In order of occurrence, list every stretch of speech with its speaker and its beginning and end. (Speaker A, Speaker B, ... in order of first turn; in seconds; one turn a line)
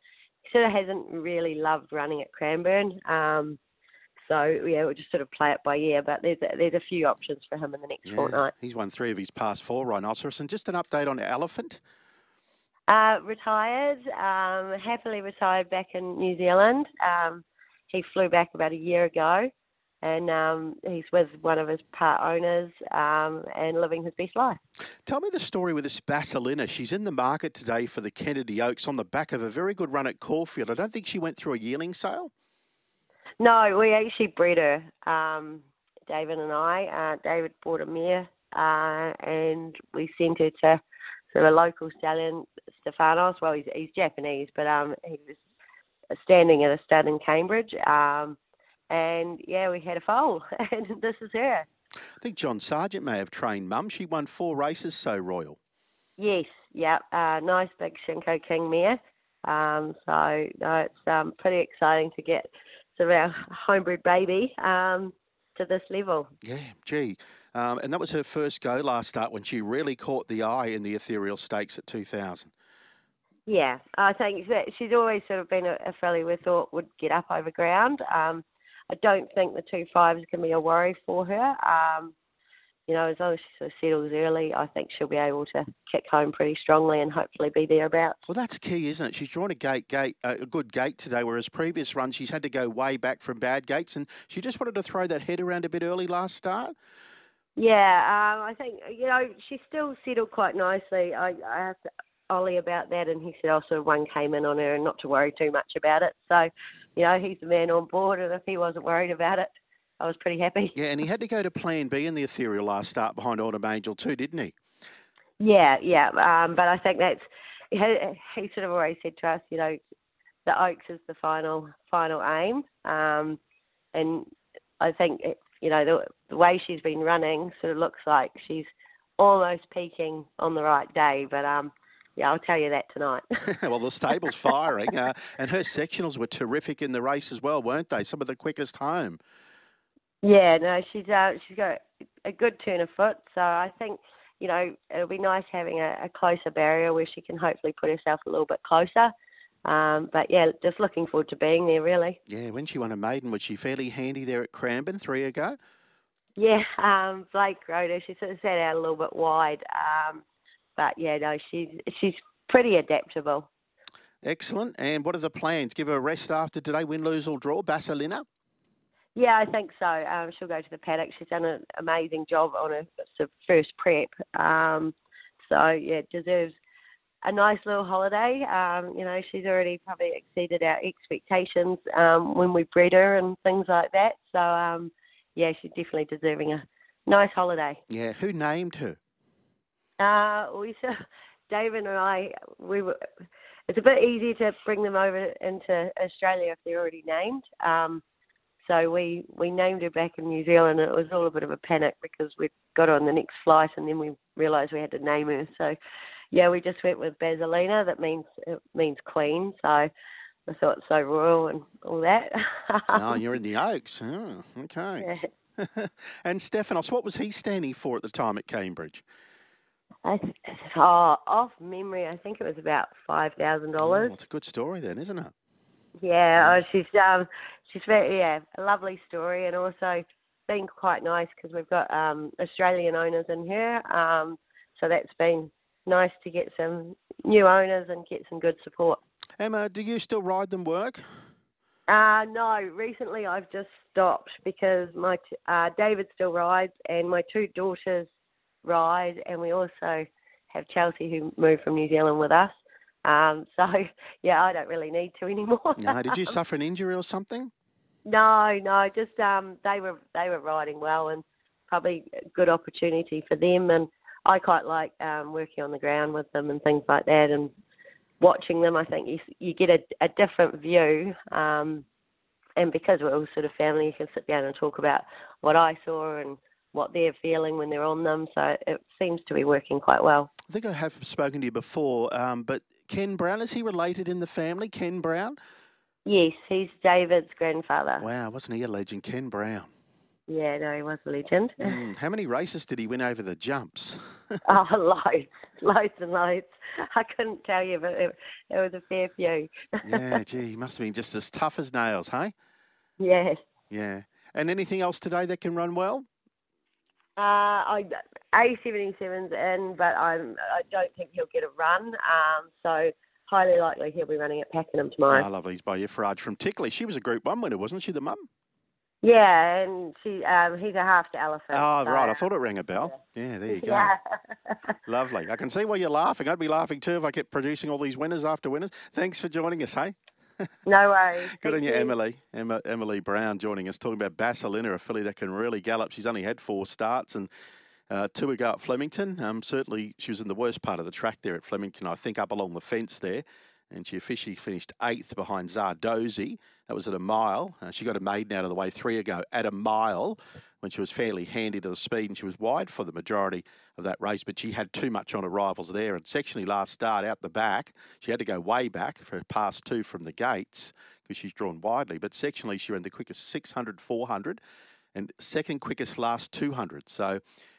Speaker A: 0.4-3.6
Speaker A: 4.2-8.5
Speaker B: 8.0-11.8
Speaker A: 12.9-19.5
Speaker A: 20.0-24.6
Speaker B: 25.1-32.3
Speaker A: 33.4-45.4
Speaker A: 46.1-48.4
Speaker A: 48.9-51.7
Speaker B: 52.2-55.6
Speaker A: 56.2-66.3
Speaker B: 66.4-72.5
Speaker A: 73.5-82.1
Speaker A: 82.9-88.2
Speaker B: 88.3-96.7
Speaker A: 97.5-101.8
Speaker A: 102.3-110.7
Speaker B: 110.7-114.5
Speaker A: 115.4-119.8
Speaker A: 120.5-123.4
Speaker A: 123.9-124.3
Speaker A: 124.8-133.2
Speaker B: 133.4-139.2
Speaker A: 140.2-149.1
Speaker A: 149.7-152.2
Speaker B: 152.3-155.6
Speaker A: 156.4-160.2
Speaker A: 160.8-163.5
Speaker B: 164.2-168.2
Speaker A: 169.1-176.6
Speaker A: 177.2-187.8
Speaker B: 187.9-189.0
Speaker A: 190.0-190.9
Speaker A: 191.5-193.1
Speaker A: 193.7-198.0
Speaker A: 198.6-205.8
Speaker A: 206.3-209.9
Speaker A: 210.5-213.0
Speaker B: 212.9-219.0
Speaker A: 215.0-215.2
Speaker A: 220.0-224.2
Speaker B: 223.8-225.3
Speaker A: 226.0-239.0
Speaker B: 226.4-226.6
Speaker B: 239.4-241.0
Speaker A: 241.9-248.1
Speaker A: 248.6-256.3
Speaker B: 255.8-257.5
Speaker A: 258.0-267.5
Speaker A: 268.2-271.8
Speaker A: 272.6-280.3
Speaker B: 280.5-285.4
Speaker A: 286.1-288.0
Speaker B: 288.0-289.7
Speaker A: 290.3-291.7
Speaker B: 291.6-294.6
Speaker A: 294.5-300.2
Speaker B: 299.8-302.3
Speaker A: 303.0-303.4
Speaker B: 303.7-306.0
Speaker A: 307.2-315.2
Speaker B: 315.1-318.2
Speaker A: 319.0-322.2
Speaker B: 321.5-323.9
Speaker A: 323.5-324.6
Speaker B: 324.9-330.5
Speaker A: 330.6-331.9
Speaker B: 331.3-337.3
Speaker B: 337.9-364.4
Speaker B: 364.9-367.2